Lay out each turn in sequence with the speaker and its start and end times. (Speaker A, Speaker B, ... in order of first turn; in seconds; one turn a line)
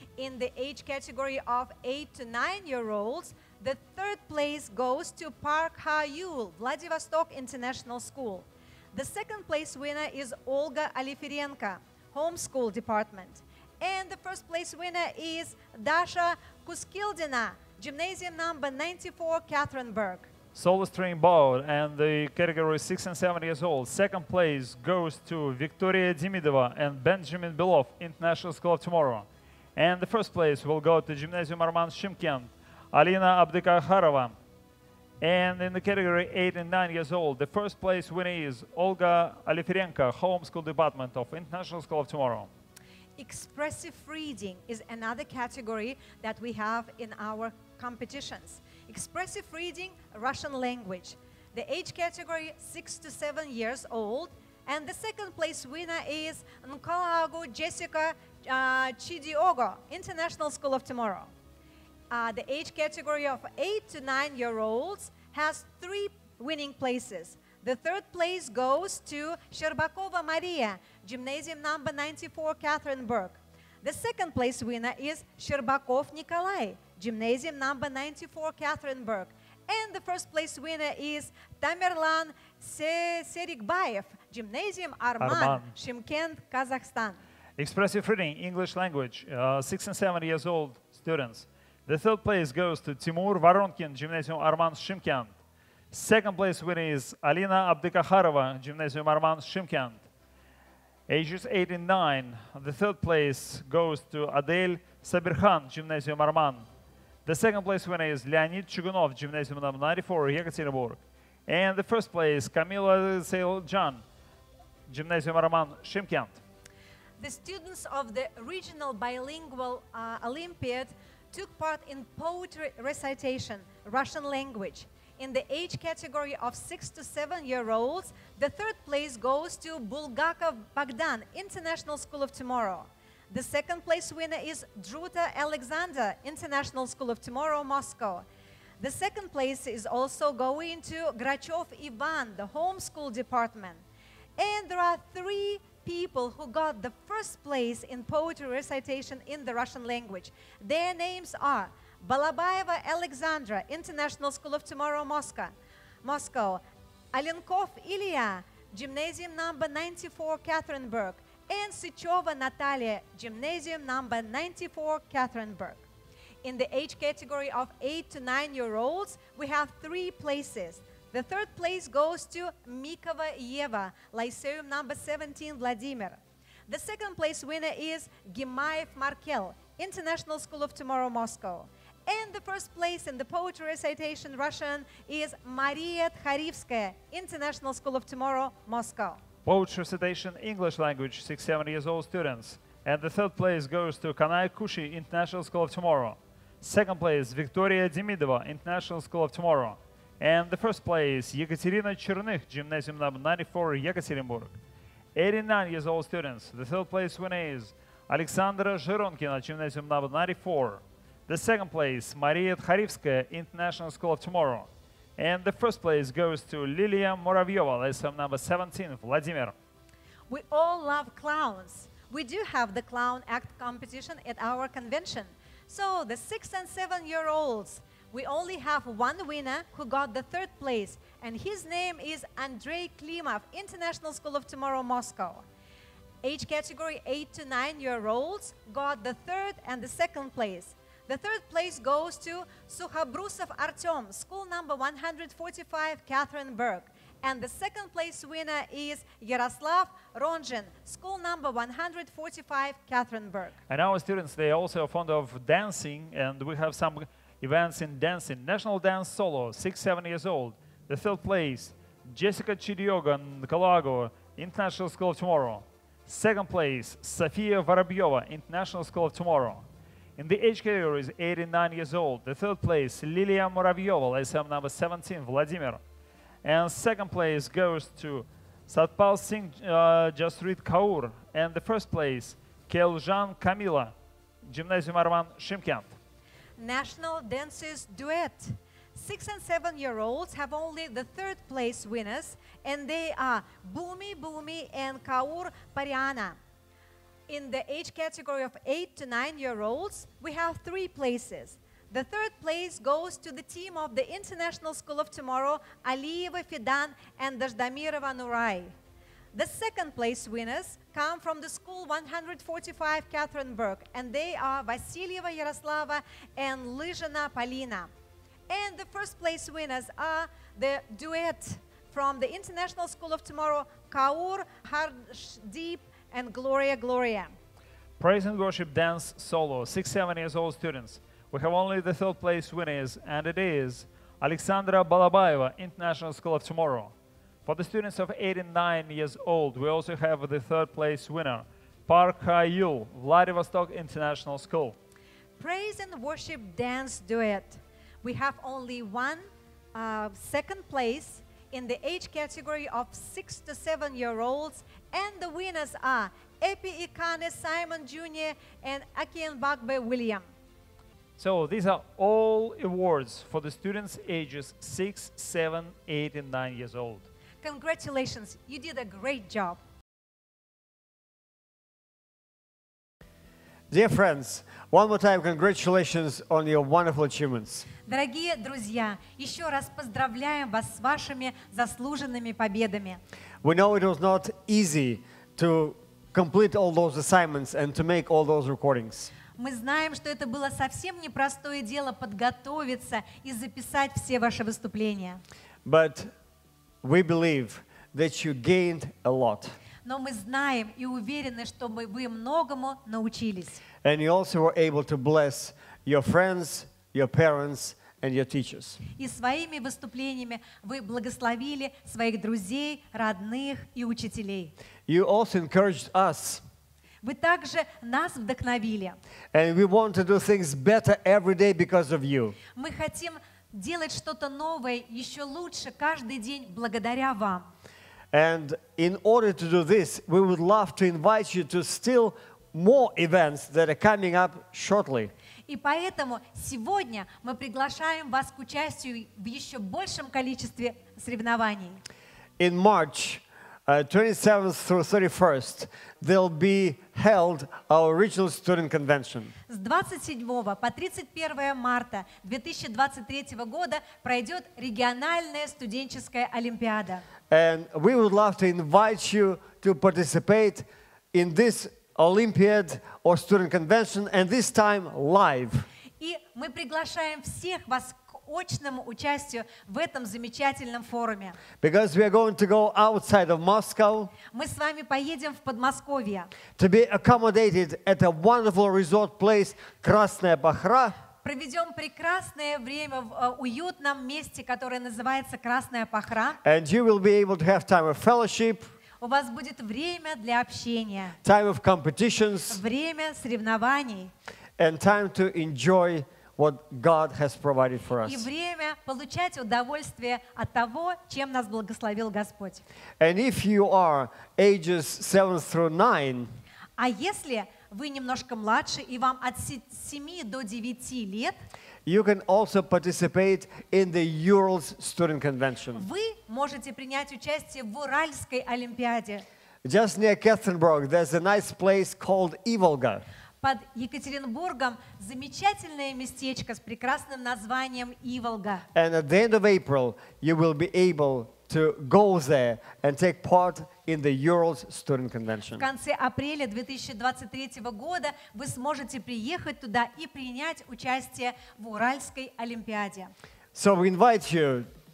Speaker A: 0.2-20.3
Speaker B: 20.6-34.4
Speaker B: 35.2-42.5
Speaker A: 43.2-61.3
Speaker A: 62.1-87.2
Speaker B: 85.2-85.7
Speaker B: 87.6-95.3
Speaker B: 95.9-100.0
Speaker B: 101.1-106.7
Speaker B: 107.3-114.0
Speaker B: 114.9-116.4
Speaker A: 117.2-138.2
Speaker A: 138.8-143.8
Speaker A: 144.4-156.6
Speaker A: 157.1-165.8
Speaker A: 166.4-189.2
Speaker B: 189.4-204.6
Speaker B: 205.1-219.5
Speaker A: 220.3-235.4
Speaker A: 236.2-253.6
Speaker B: 253.7-269.6
Speaker B: 270.2-275.8
Speaker B: 276.4-283.9
Speaker B: 284.4-285.9
Speaker A: 286.6-296.4
Speaker A: 297.3-308.7
Speaker A: 309.3-317.9
Speaker A: 318.5-327.3
Speaker B: 328.0-336.9
Speaker B: 337.5-344.8
Speaker A: 345.4-360.3
Speaker B: 361.2-367.1
Speaker A: 367.4-369.6
Speaker C: 373.7-377.7
Speaker A: 377.9-383.0
Speaker C: 383.4-389.1
Speaker A: 389.4-395.2
Speaker C: 395.6-396.1
Speaker C: 396.8-399.5
Speaker A: 399.9-403.6
Speaker C: 403.8-408.8
Speaker A: 409.0-414.5
Speaker C: 414.9-416.4
Speaker A: 417.0-419.0
Speaker C: 419.3-422.4
Speaker A: 422.6-427.5
Speaker C: 428.1-435.1
Speaker A: 435.5-441.8
Speaker C: 442.4-449.3
Speaker A: 449.5-457.0
Speaker C: 457.3-465.6
Speaker A: 466.0-471.4
Speaker C: 471.6-474.1
Speaker A: 474.3-476.3
Speaker C: 476.6-480.9
Speaker A: 481.2-486.4
Speaker C: 486.4-488.7
Speaker A: 489.0-491.2
Speaker C: 491.2-492.6
Speaker A: 492.5-494.1
Speaker C: 494.6-498.3
Speaker A: 498.0-502.6
Speaker C: 503.0-506.3
Speaker A: 506.8-511.4
Speaker C: 511.9-515.9
Speaker A: 515.7-519.2
Speaker C: 519.6-523.0
Speaker A: 523.4-528.6
Speaker C: 528.7-535.6
Speaker A: 535.6-543.1
Speaker C: 543.5-544.7